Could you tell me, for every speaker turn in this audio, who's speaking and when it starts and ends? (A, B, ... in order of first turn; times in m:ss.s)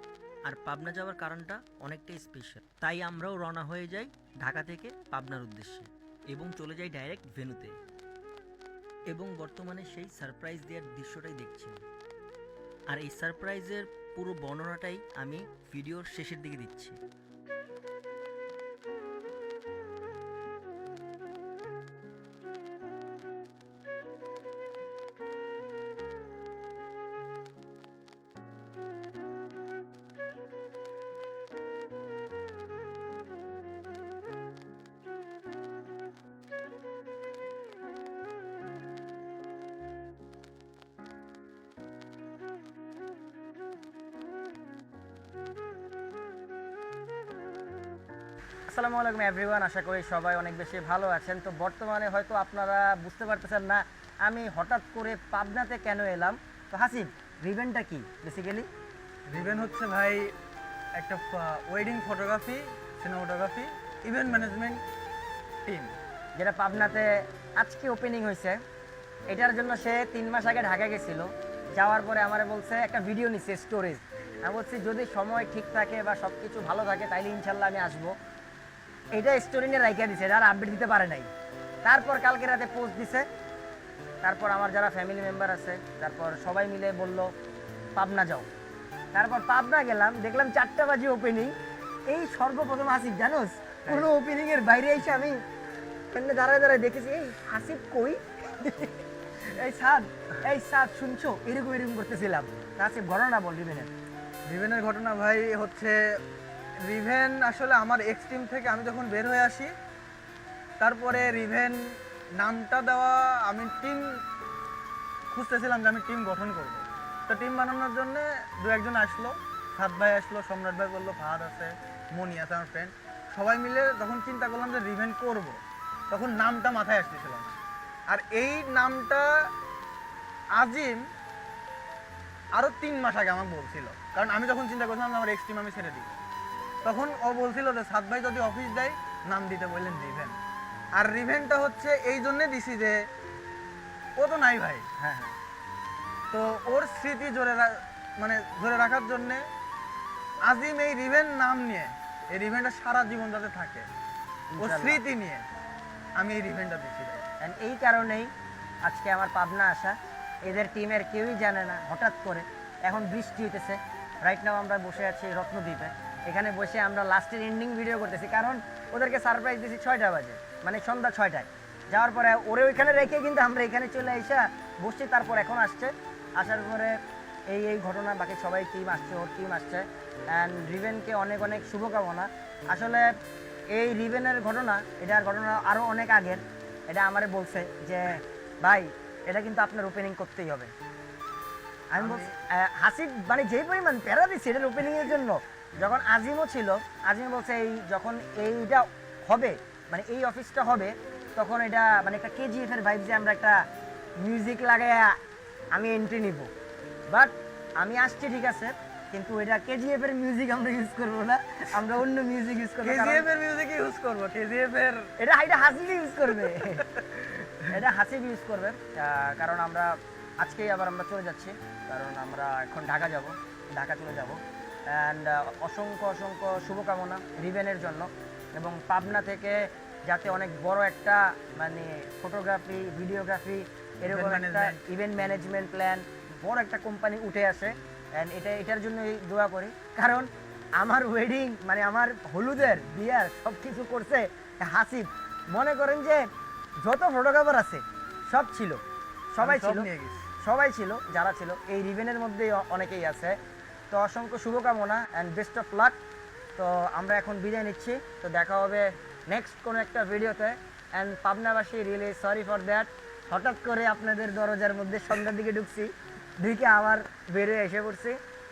0:00.4-0:07.8 A
0:09.1-0:11.8 A
0:12.9-0:17.0 A
0:48.7-0:58.7 B
0:59.3-1:00.3 C
1:01.0-1:04.8 C
1:05.7-1:06.0 C
1:06.4-1:08.6 B
1:09.3-1:18.1 B
1:19.1-1:21.3 B
1:21.8-1:23.2 B
1:24.2-1:27.3 B
1:28.0-1:28.5 B
1:29.1-1:31.5 B
1:32.1-1:35.4 B
1:36.1-1:43.9 B
1:44.5-1:46.0 C
1:46.8-1:49.7 C
1:50.8-1:54.2 C
1:55.3-2:05.6 C
2:06.1-2:07.6 C
2:08.1-2:09.5 C
2:10.6-2:11.0 C
2:12.5-2:16.2 C
2:16.8-2:20.4 C
2:21.0-2:23.0 C
2:24.2-2:24.9 C
2:25.0-2:25.4 B
2:26.3-2:29.5 C
2:30.4-2:33.9 C
2:34.5-2:35.0 B
2:34.6-2:35.5 C
2:36.2-2:37.2 C
2:37.4-2:38.3 B
2:38.8-2:57.0 B
2:57.5-3:03.1 B
3:03.7-3:10.7 B
3:11.9-3:23.6 B
3:12.0-3:12.4 C
3:24.2-3:25.2 B
3:25.7-3:26.5 B
3:27.1-3:33.3 B
3:32.8-3:35.1 C
3:35.2-3:36.9 B
3:36.6-3:37.7 C
3:37.7-4:06.2 B
3:54.1-3:54.8 C
4:06.8-4:08.8 B
4:09.3-4:09.9 B
4:09.4-4:10.3 C
4:10.4-4:13.4 B
4:13.9-4:16.0 B
4:16.6-4:28.2 B